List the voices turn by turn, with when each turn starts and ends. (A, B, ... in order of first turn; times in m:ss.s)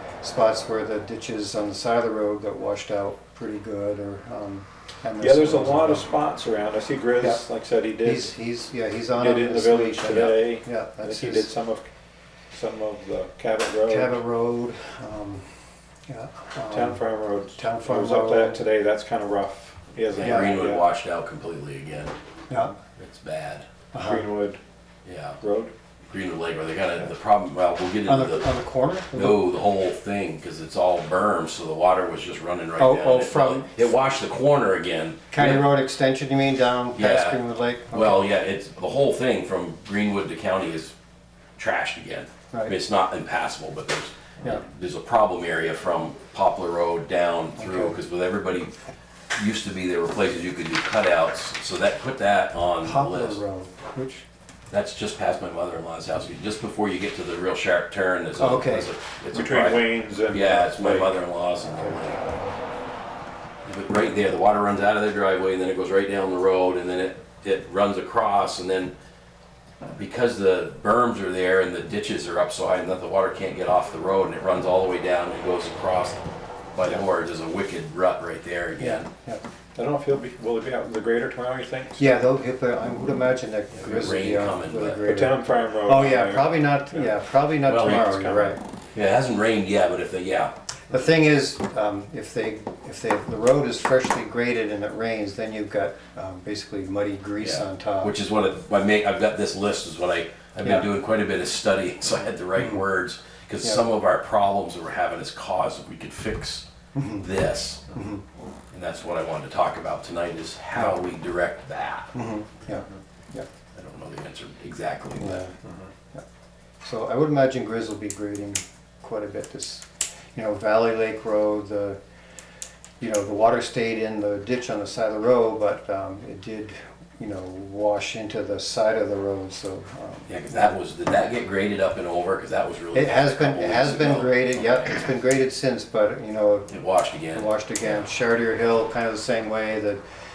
0:00.2-0:06.1 A
0:05.2-0:08.3 B
0:08.0-0:11.5 A
0:09.2-0:11.9 B
0:12.5-0:14.2 B
0:13.9-0:15.4 A
0:16.1-0:17.0 A
0:16.7-0:20.9 B
0:17.6-0:18.6 A
0:20.2-0:22.2 C
0:20.2-0:20.5 A
0:22.5-0:22.8 A
0:23.0-0:23.7 C
0:23.9-0:24.3 A
0:24.0-0:24.6 B
0:25.0-0:25.4 C
0:25.4-0:25.7 B
0:26.1-0:28.5 C
0:28.1-0:29.4 A
0:29.1-0:35.7 C
0:32.8-0:33.7 A
0:35.3-0:38.3 A
0:37.0-0:40.9 C
0:41.6-0:48.7 C
0:42.5-0:42.8 A
0:47.6-0:48.0 A
0:49.4-0:53.4 C
0:52.8-0:54.2 A
0:54.7-1:02.4 C
0:58.4-0:58.9 A
0:59.3-1:01.1 B
1:03.6-1:08.9 C
1:10.0-1:19.1 C
1:18.8-1:19.4 A
1:19.8-1:22.1 B
1:22.0-1:28.6 A
1:23.7-1:25.0 C
1:25.1-1:27.1 B
1:27.7-1:30.5 C
1:28.2-1:28.6 B
1:30.9-1:38.2 A
1:37.4-1:46.7 C
1:42.6-1:42.9 A
1:46.9-1:47.3 A
1:47.2-1:47.8 C
1:47.9-1:48.2 A
1:48.7-1:52.1 C
1:52.1-1:53.5 A
1:53.8-1:55.5 C
1:55.2-1:55.6 A
1:55.6-1:55.9 B
1:56.8-2:02.0 A
2:03.0-2:10.4 A
2:10.3-2:15.1 C
2:12.9-2:20.0 A
2:16.7-2:18.0 C